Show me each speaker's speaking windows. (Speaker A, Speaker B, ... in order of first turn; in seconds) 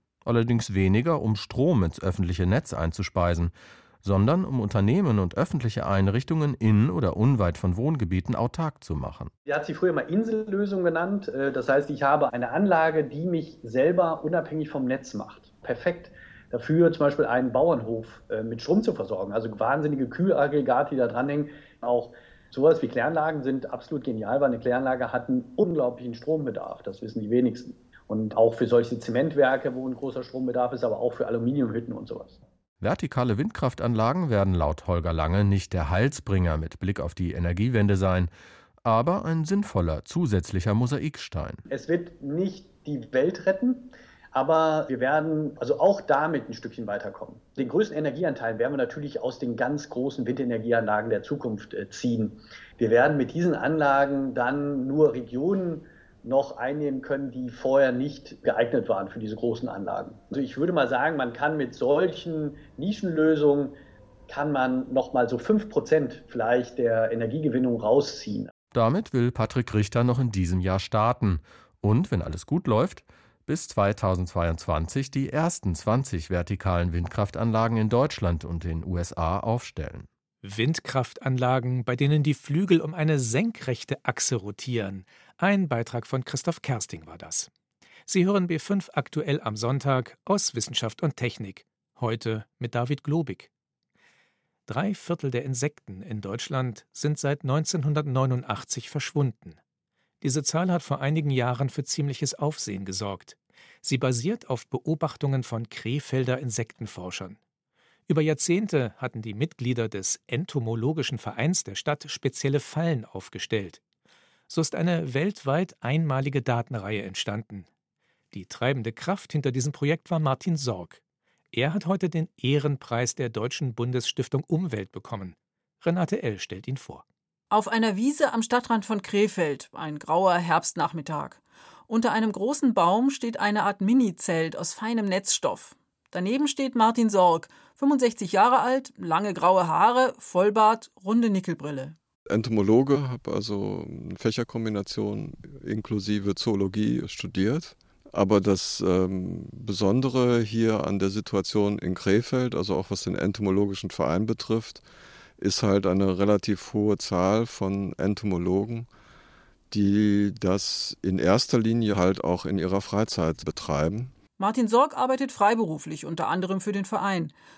Speaker A: 0.2-9.3, 32.8-38.3, 38.8-41.6, 68.7-80.1
Speaker B: 9.5-32.4, 41.7-63.7, 64.3-68.5
Speaker C: 80.4-87.5, 88.1-93.5, 94.7-99.6, 100.2-107.4, 108.1-113.8, 114.5-117.7, 118.3-121.0, 121.5-127.0
Speaker D: 127.5-141.9, 164.4-167.3
Speaker E: 142.3-154.8, 155.4-158.9, 159.7-164.1